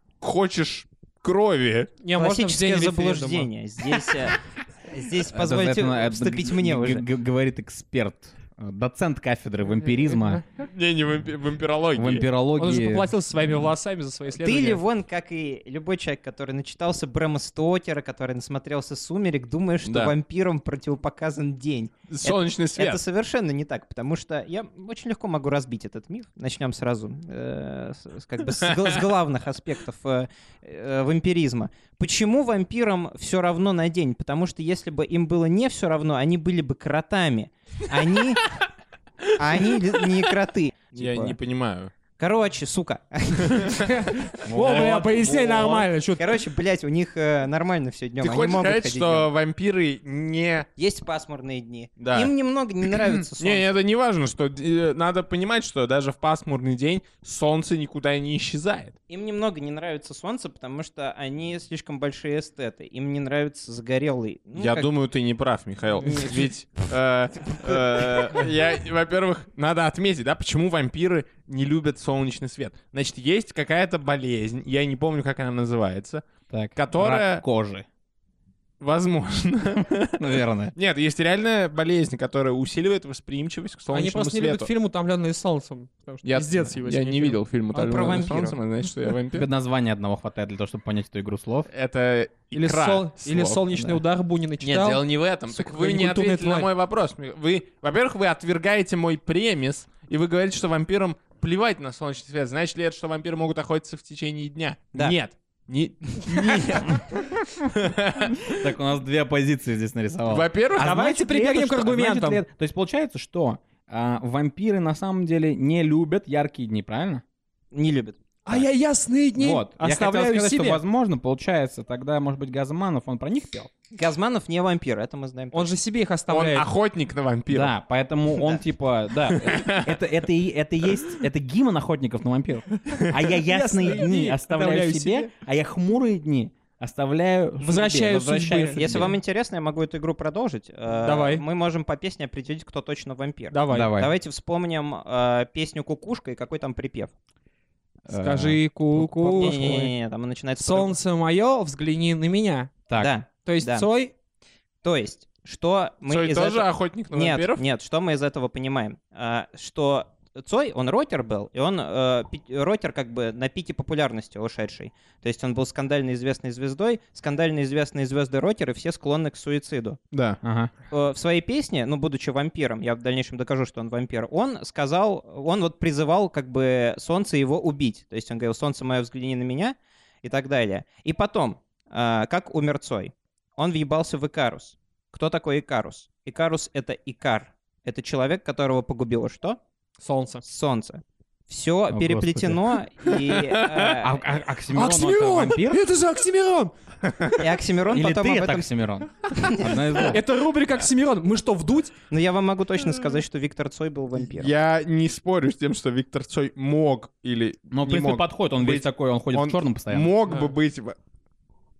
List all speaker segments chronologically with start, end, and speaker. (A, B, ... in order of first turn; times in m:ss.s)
0:00.2-0:01.9 A
0:02.0-0:03.5 B
0:02.1-0:07.0 C
0:05.3-0:10.4 D
0:09.8-0:10.4 B
0:10.6-0:12.3 A
0:11.9-0:13.1 D
0:12.6-0:14.8 B
0:14.3-0:38.4 C
0:19.8-0:20.1 A
0:22.1-0:23.0 A
0:39.4-0:41.4 C
0:40.9-0:41.9 A
0:42.2-0:43.8 C
0:43.8-0:46.3 B
0:44.4-0:45.8 D
0:44.6-0:44.9 A
0:46.2-0:49.3 C
0:48.2-0:50.7 A
0:50.8-0:53.8 C
0:52.0-0:52.3 A
0:53.4-0:59.0 A
0:59.1-1:04.9 C
1:04.5-1:17.4 A
1:06.0-1:06.5 C
1:07.6-1:08.1 C
1:16.5-1:17.9 D
1:18.8-1:24.7 A
1:20.2-1:20.7 D
1:23.9-1:27.4 B
1:26.2-1:29.4 A
1:27.7-1:28.6 C
1:29.3-1:31.7 D
1:31.7-1:33.6 A
1:32.5-1:36.7 B
1:33.7-1:34.0 D
1:34.6-1:48.7 A
1:48.4-1:57.2 D
1:50.3-1:50.9 A
1:50.8-1:52.4 B
1:57.7-1:58.2 C
1:58.4-2:00.8 B
1:59.4-2:03.7 D
2:03.9-2:05.8 C
2:05.5-2:06.7 B
2:06.3-2:07.7 A
2:07.5-2:19.2 D
2:09.2-2:10.0 A
2:13.0-2:15.3 B
2:17.6-2:18.9 B
2:18.8-2:27.1 C
2:21.0-2:21.4 B
2:23.5-2:23.9 B
2:23.7-2:24.1 D
2:28.0-2:29.9 D
2:28.1-2:29.9 B
2:29.3-2:30.9 C
2:30.6-2:32.7 B
2:33.0-2:33.9 C
2:33.4-2:34.1 B
2:34.8-2:50.0 C
2:36.0-2:37.6 A
2:50.1-2:50.4 A
2:50.4-2:50.7 D
2:50.9-3:09.6 C
3:10.0-3:10.4 B
3:10.4-3:14.2 C
3:11.9-3:12.6 D
3:13.7-3:15.8 D
3:14.7-3:16.7 B
3:17.4-3:18.7 C
3:17.9-3:20.2 D
3:19.3-3:19.7 C
3:20.0-3:21.9 B
3:22.1-3:24.5 C
3:24.1-3:31.0 A
3:27.7-3:30.1 D
3:30.3-3:30.5 B